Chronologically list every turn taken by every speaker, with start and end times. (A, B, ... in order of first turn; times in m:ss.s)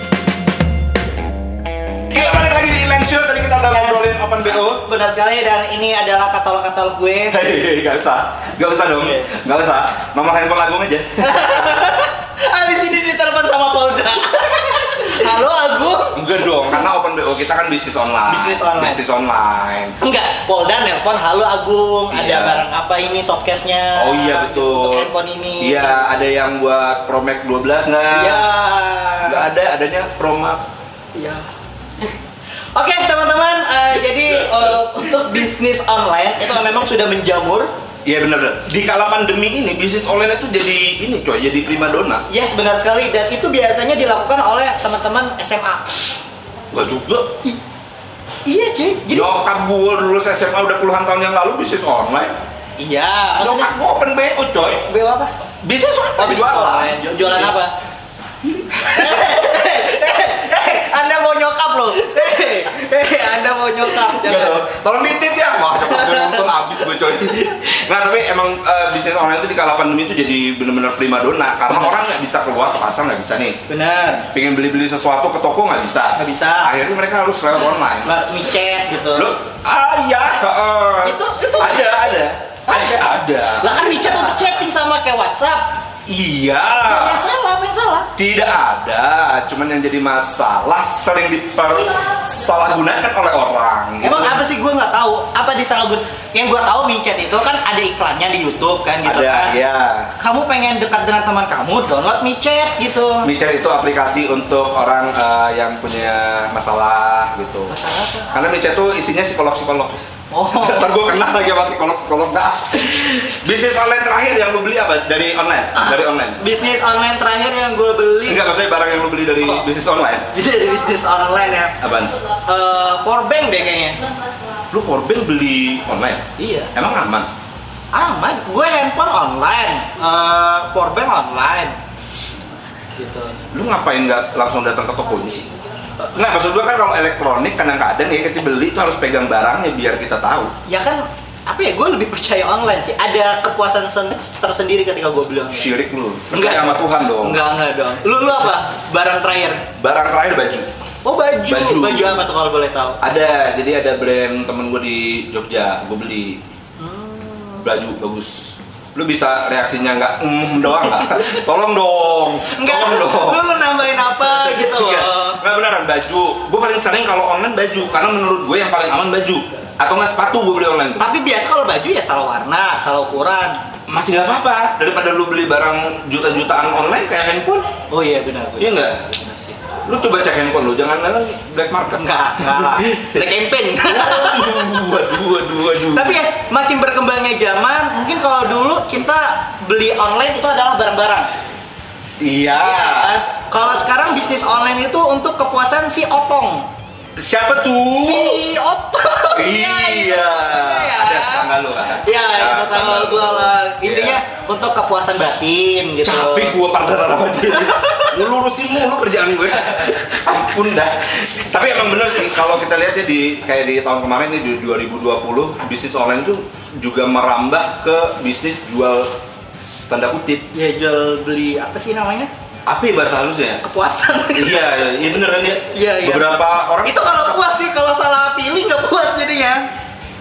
0:02.1-0:04.8 A
0:02.1-0:02.5 B
0:03.7-0:07.4 B
0:07.3-0:11.4 A
0:09.0-0:09.3 B
0:11.2-0:16.2 B
0:16.1-0:19.9 A
0:18.3-0:19.0 B
0:20.0-0:26.0 B
0:22.1-0:22.6 A
0:23.9-0:28.5 A
0:28.1-0:29.4 B
0:29.2-0:30.6 A
0:31.1-0:31.5 B
0:32.7-0:37.7 B
0:38.0-0:42.2 A
0:42.3-0:45.9 B
0:46.7-0:47.4 A
0:48.4-0:49.3 B
0:49.1-0:52.3 A
0:52.8-0:53.8 B
0:53.4-0:54.8 A
0:54.7-0:55.3 B
0:55.6-0:57.5 A
0:56.2-0:57.7 B
0:58.8-1:04.6 B
1:04.2-1:13.6 A
1:05.8-1:06.5 B
1:13.7-1:14.2 B
1:14.3-1:18.1 A
1:16.2-1:16.7 B
1:18.0-1:19.3 B
1:19.1-1:24.0 A
1:21.0-1:22.2 B
1:22.7-1:23.0 B
1:23.6-1:25.8 B
1:26.0-1:27.2 A
1:26.8-1:28.1 B
1:28.2-1:34.4 A
1:34.0-1:39.5 B
1:39.0-1:40.1 A
1:40.1-1:43.3 B
1:43.2-1:47.8 A
1:47.7-1:48.3 B
1:48.3-1:56.4 A
1:50.3-1:50.9 B
1:55.8-1:58.5 B
1:58.2-2:00.3 A
1:59.4-1:59.7 B
2:00.3-2:01.8 B
2:01.8-2:02.1 A
2:02.3-2:04.0 B
2:04.7-2:07.3 A
2:06.4-2:06.7 B
2:07.9-2:11.8 B
2:12.9-2:13.5 B
2:13.5-2:20.5 A
2:20.6-2:25.7 B
2:25.5-2:27.4 A
2:26.3-2:29.7 B
2:29.8-2:30.7 A
2:31.0-2:33.0 B
2:31.5-2:32.2 A
2:33.0-2:36.4 A
2:36.8-2:37.7 B
2:37.6-2:43.4 A
2:42.5-2:45.4 B
2:44.2-2:51.1 A
2:51.0-2:53.6 B
2:53.9-2:57.7 A
2:57.9-2:59.6 B
2:58.6-2:59.0 A
2:59.8-3:03.1 A
3:01.9-3:04.8 B
3:03.8-3:06.2 A
3:05.8-3:11.3 B
3:12.2-3:13.2 A
3:12.5-3:16.7 B
3:17.2-3:18.4 A
3:17.9-3:26.6 B
3:19.3-3:24.2 A
3:26.0-3:39.1 A
3:27.5-3:28.1 B
3:39.9-3:40.5 A
3:40.5-3:42.3 B
3:42.6-3:43.6 A
3:43.6-3:44.7 B
3:44.3-3:47.3 A
3:45.7-3:49.7 B